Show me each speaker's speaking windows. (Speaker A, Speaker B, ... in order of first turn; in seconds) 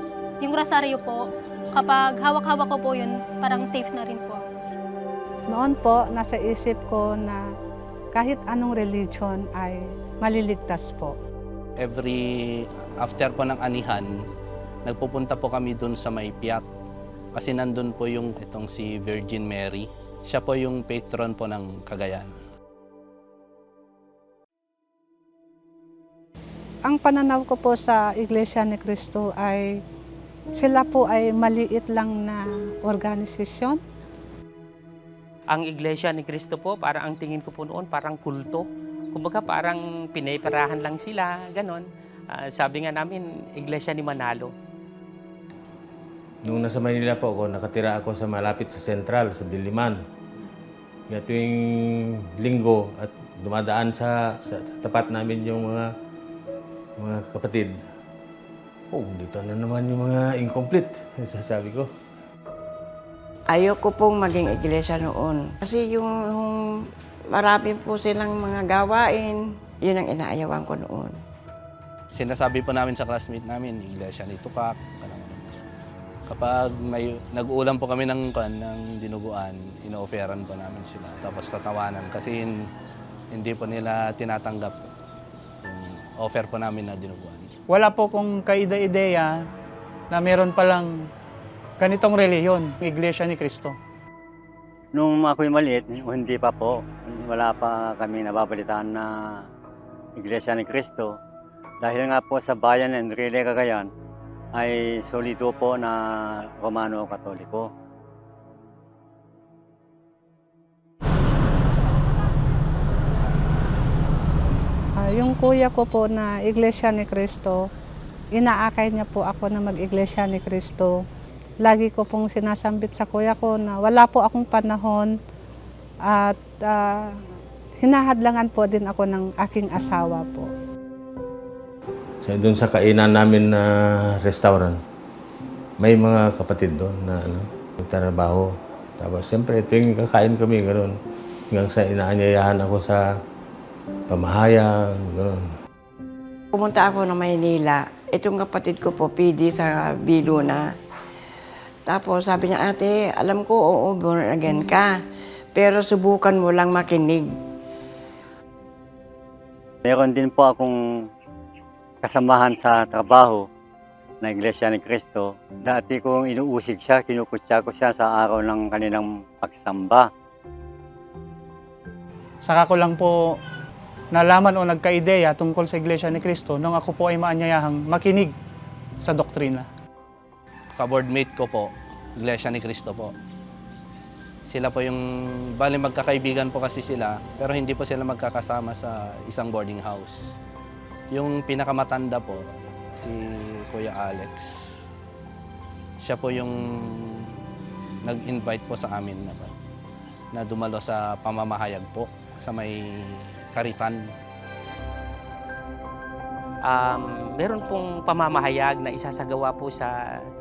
Speaker A: 0.4-4.4
Speaker B: 5.5-7.4, 8.1-11.2, 26.9-29.8, 30.6-33.8, 115.0-117.7, 118.3-121.0, 121.6-125.1, 126.1-127.0, 127.8-130.5
Speaker C: 11.8-14.1, 14.8-16.6, 17.3-22.4, 72.1-75.6, 76.3-82.7, 83.3-84.8, 85.6-87.5, 180.7-183.1, 184.5-190.3, 191.1-194.8, 196.0-197.3, 198.0-199.5, 200.3-204.1
Speaker D: 35.5-44.5, 206.6-209.9
Speaker E: 46.4-50.0, 51.1-55.9, 57.0-57.8, 58.9-61.9, 132.2-134.8, 135.8-140.9, 141.5-143.1, 144.1-145.5
Speaker F: 63.5-71.2, 146.5-150.7, 151.9-154.9, 155.5-157.2
Speaker G: 87.7-89.4, 90.1-91.1, 91.8-93.8, 172.4-173.4, 174.1-178.3, 179.0-179.7
Speaker H: 95.0-99.5, 100.2-101.1, 101.8-103.9, 104.5-107.7, 159.8-160.8, 162.0-163.4, 164.2-170.1